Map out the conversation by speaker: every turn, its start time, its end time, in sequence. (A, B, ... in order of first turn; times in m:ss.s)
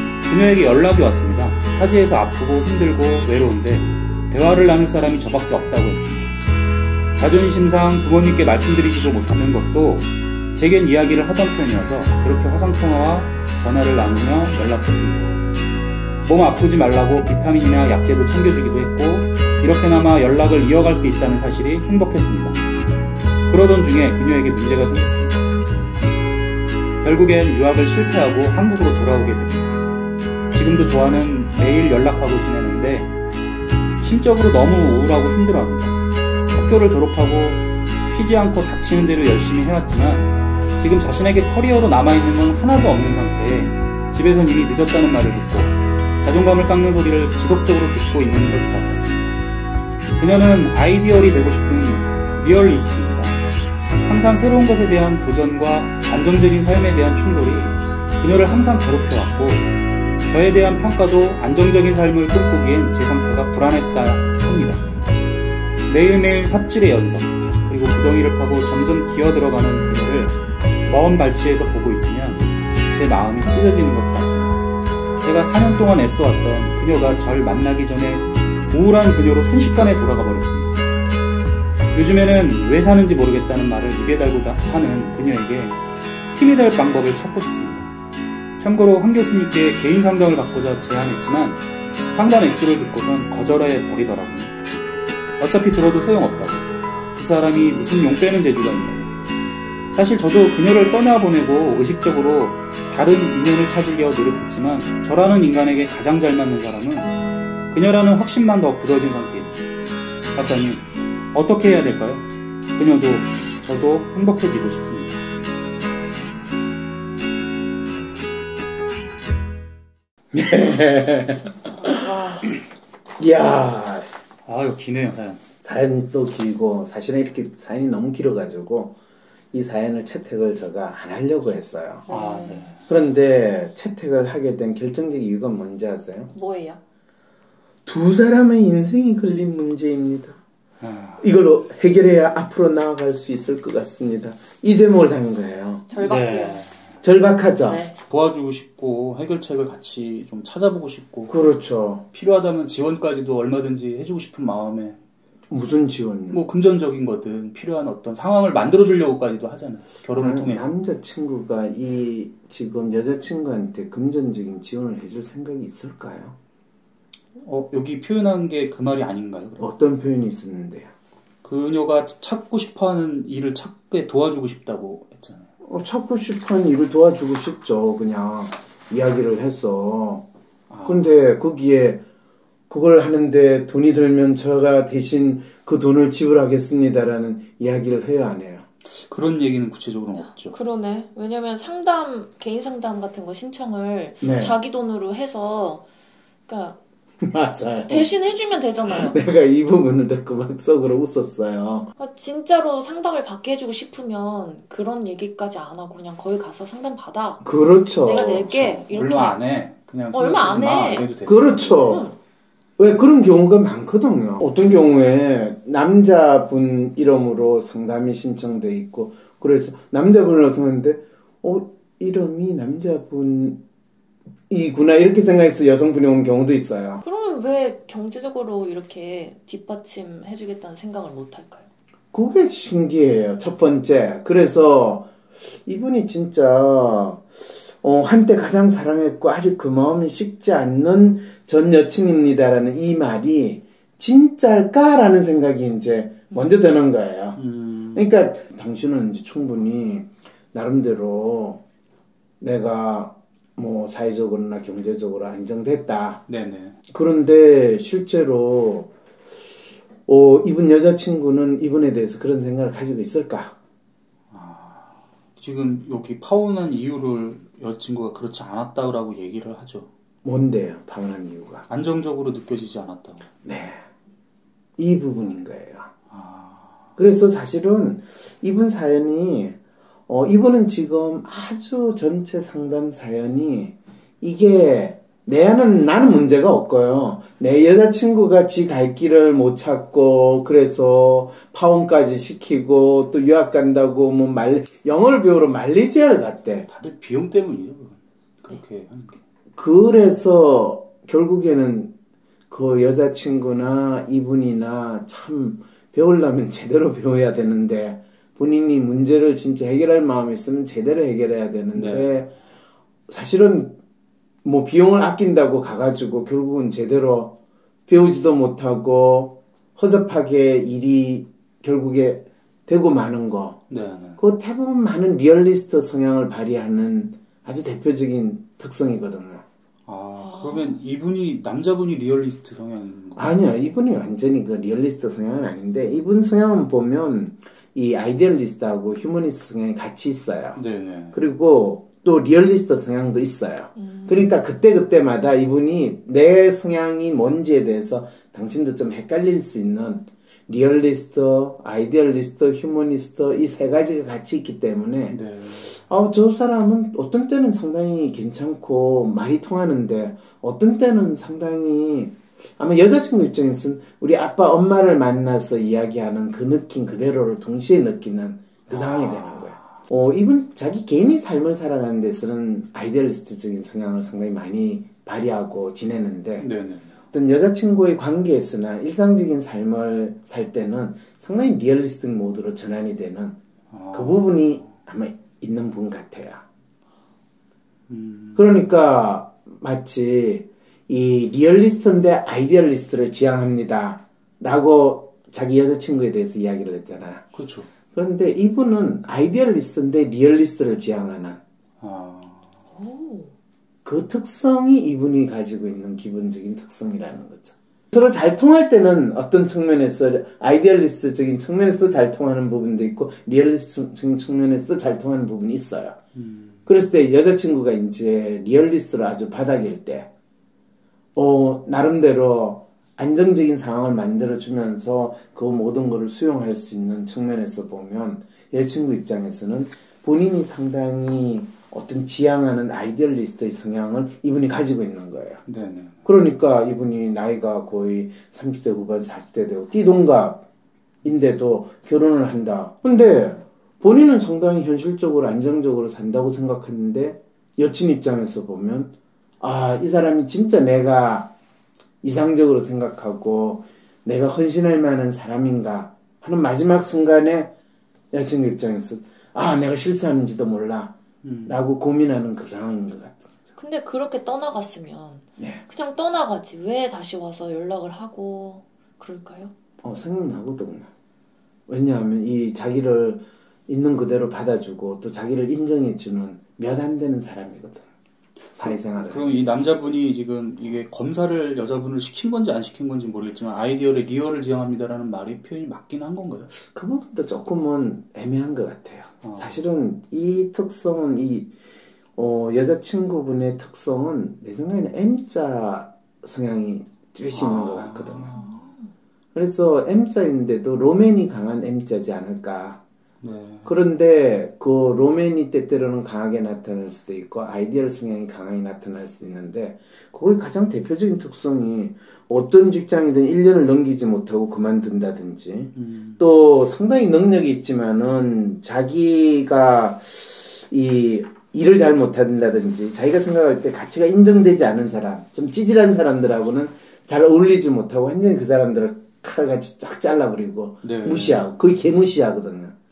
0:00.3-0:06.3 A
0:07.2-0:15.4 A
0:16.2-0:22.6 A
0:23.5-0:25.5 A
0:27.0-0:29.8 A
0:30.5-0:33.1 A
0:34.0-0:36.0 A
0:36.5-0:49.4 A
0:50.2-0:53.4 A
0:54.1-0:59.7 A
1:00.3-1:04.8 A
1:05.9-1:14.6 A
1:15.2-1:20.8 A
1:21.9-1:25.8 A
1:26.3-1:27.9 A
1:28.6-1:34.6 A
1:35.4-1:39.1 A
1:39.9-1:47.2 A
1:47.7-1:49.6 A
1:50.3-1:55.2 A
2:00.3-2:02.1 B
2:01.2-2:02.5 C
2:03.2-2:04.1 B
2:04.4-2:05.4 A
2:05.6-2:09.0 B
2:09.5-2:12.0 B
2:12.1-2:12.7 C
2:12.1-2:12.8 A
2:12.9-2:16.3 B
2:16.3-2:16.8 C
2:17.9-2:20.4 B
2:20.8-2:21.2 A
2:21.2-2:25.9 B
2:25.9-2:26.6 C
2:26.0-2:27.0 A
2:27.0-2:27.8 B
2:27.6-2:28.0 C
2:28.0-2:31.4 A
2:31.3-2:32.0 B
2:32.1-2:35.0 A
2:35.5-2:36.4 B
2:36.3-2:40.7 A
2:40.2-2:46.4 B
2:47.4-2:49.7 A
2:49.6-2:50.9 B
2:51.4-2:55.5 A
2:55.6-3:00.2 B
3:00.7-3:01.1 A
3:00.9-3:02.0 B
3:02.7-3:08.7 B
3:08.9-3:10.6 A
3:10.2-3:15.8 C
3:14.2-3:14.5 B
3:16.5-3:16.8 C
3:17.2-3:18.1 B
3:17.9-3:19.2 C
3:18.9-3:21.9 B
3:22.0-3:27.4 C
3:27.4-3:28.5 B
3:28.0-3:29.4 C
3:28.5-3:32.0 A
3:30.1-3:31.1 C
3:31.3-3:32.1 B
3:31.8-3:32.2 C
3:32.8-3:43.6 B
3:44.5-3:47.0 B
3:47.0-3:51.7 C
3:52.1-3:55.1 B
3:55.6-4:07.4 B
4:07.4-4:08.1 A
4:07.9-4:11.6 B
4:12.4-4:16.2 B
4:16.3-4:16.8 A
4:16.9-4:18.9 B
4:20.1-4:23.6 B
4:24.3-4:29.9 A
4:30.2-4:31.6 B
4:31.7-4:33.3 A
4:33.4-4:33.8 B
4:34.8-4:35.9 B
4:36.1-4:36.9 A
4:37.0-4:56.7 B
4:56.7-4:59.2 A
4:59.6-5:01.9 B
5:02.5-5:12.3 B
5:11.8-5:12.1 A
5:13.1-5:13.8 B
5:14.4-5:17.3 B
5:17.9-5:23.6 B
5:23.7-5:24.2 A
5:24.2-5:29.4 B
5:29.9-5:33.3 A
5:30.2-5:30.8 C
5:33.2-5:40.6 B
5:40.6-5:41.2 A
5:41.1-5:55.2 B
5:43.8-5:44.1 C
5:55.1-5:55.8 A
5:55.8-6:16.5 B
6:08.7-6:09.6 A
6:16.4-6:16.9 A
6:17.1-6:23.4 B
6:23.7-6:24.5 A
6:23.9-6:26.4 B
6:27.9-6:28.5 A
6:28.4-6:37.3 B
6:37.3-6:37.7 A
6:37.9-6:41.4 B
6:41.8-6:42.5 A
6:42.7-6:43.3 C
6:43.8-6:56.0 B
6:56.2-6:56.6 A
6:56.7-7:00.1 B
7:01.2-7:15.4 B
7:15.5-7:16.0 A
7:16.0-7:20.4 B
7:21.0-7:31.3 B
7:32.0-7:37.5 B
7:38.1-7:40.9 B
7:41.2-7:41.5 A
7:41.5-7:43.3 B
7:43.6-7:49.5 C
7:45.4-7:45.6 B
7:49.8-7:50.9 B
7:51.7-7:57.9 B
7:58.6-7:59.8 B
7:58.6-8:06.5 A
8:06.5-8:11.5 B
8:09.2-8:09.6 A
8:12.2-8:18.4 B
8:17.3-8:18.7 A
8:18.4-8:18.8 C
8:19.3-8:22.8 B
8:23.2-8:23.8 A
8:23.6-8:52.7 B
8:35.8-8:36.2 A
8:50.8-8:51.4 A